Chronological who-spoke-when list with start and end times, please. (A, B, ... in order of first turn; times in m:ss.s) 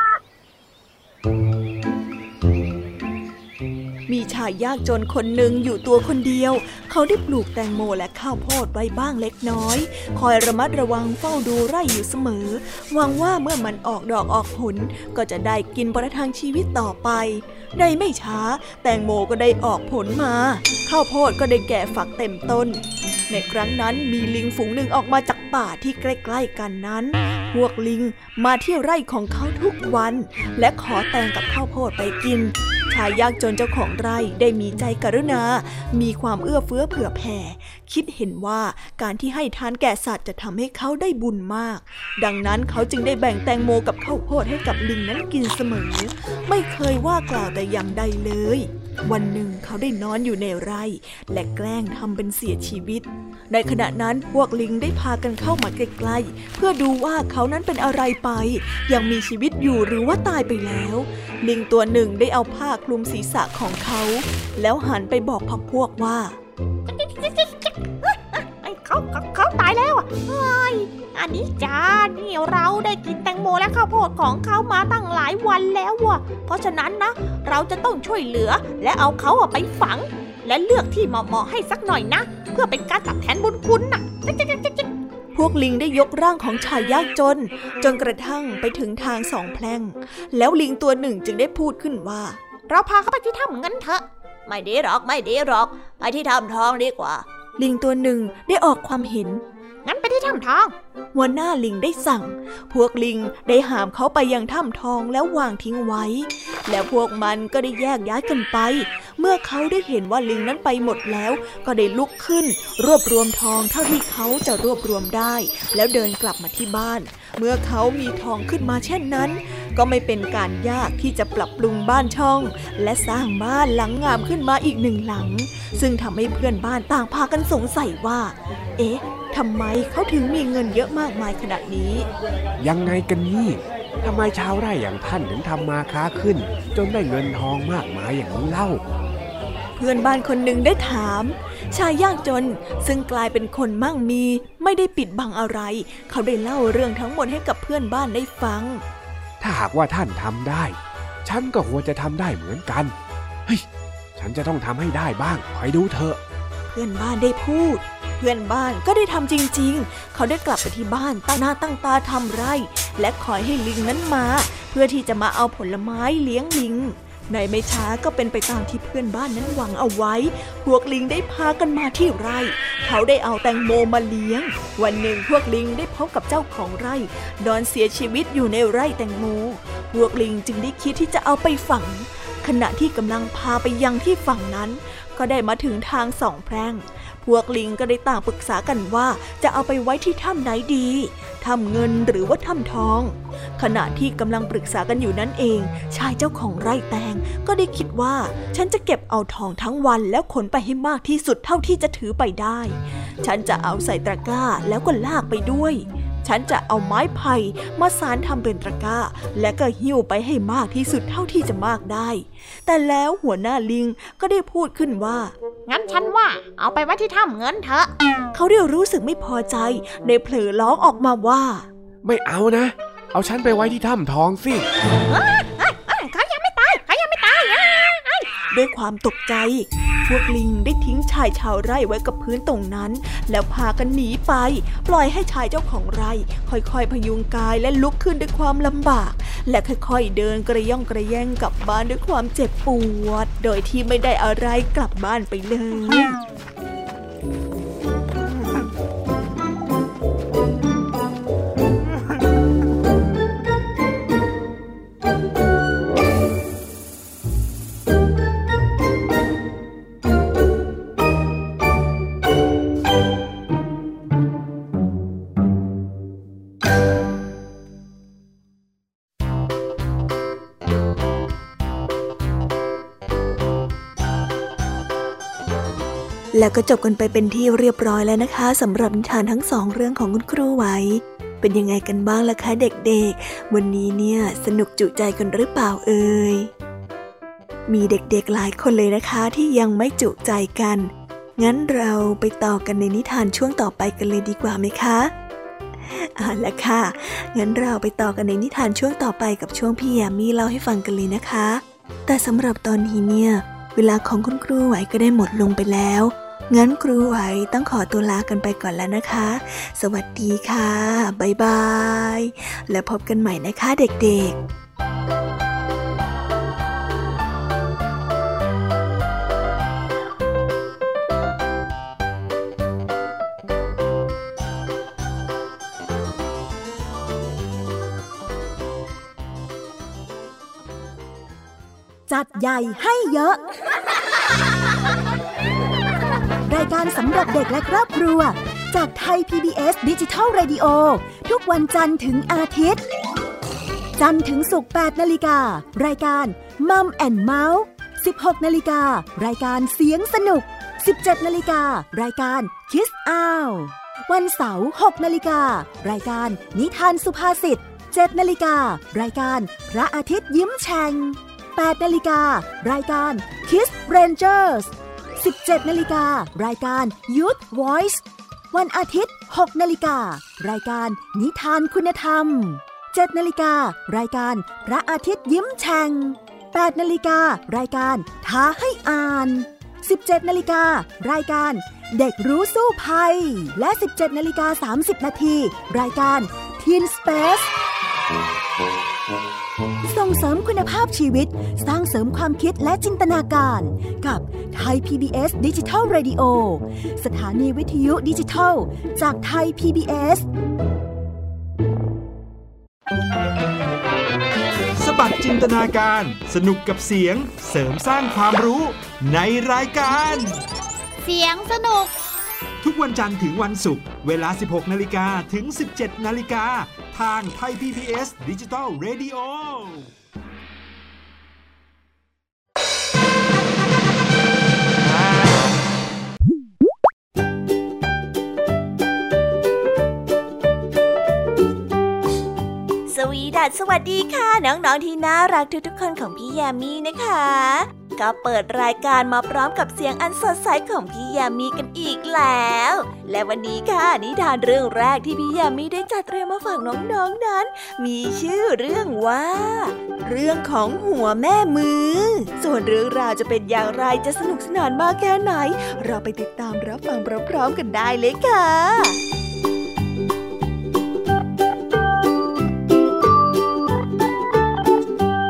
0:04.1-1:06.4 A
1:06.9-1:24.9 B
1:25.3-1:32.4 A
1:32.7-1:37.2 B
1:37.6-1:39.4 A
1:39.8-1:40.7 B
1:41.1-2:12.0 A
2:12.6-2:18.8 C
2:19.8-2:28.8 A
2:29.4-2:32.9 C
2:34.2-2:36.2 C
2:36.7-3:35.3 A
3:35.7-3:37.9 B
3:38.3-3:41.6 A
3:42.0-3:44.7 C
3:45.1-3:48.3 B
3:48.5-4:06.2 A
4:36.3-4:46.5 A
4:47.7-4:55.1 A
4:55.8-5:14.4 A
5:32.1-5:33.4 D
5:36.4-5:42.8 D
5:44.0-6:27.5 D
6:29.8-6:40.3 D
6:44.8-6:50.4 E
6:51.0-6:51.9 B
6:52.6-6:59.9 E
7:12.9-7:39.0 A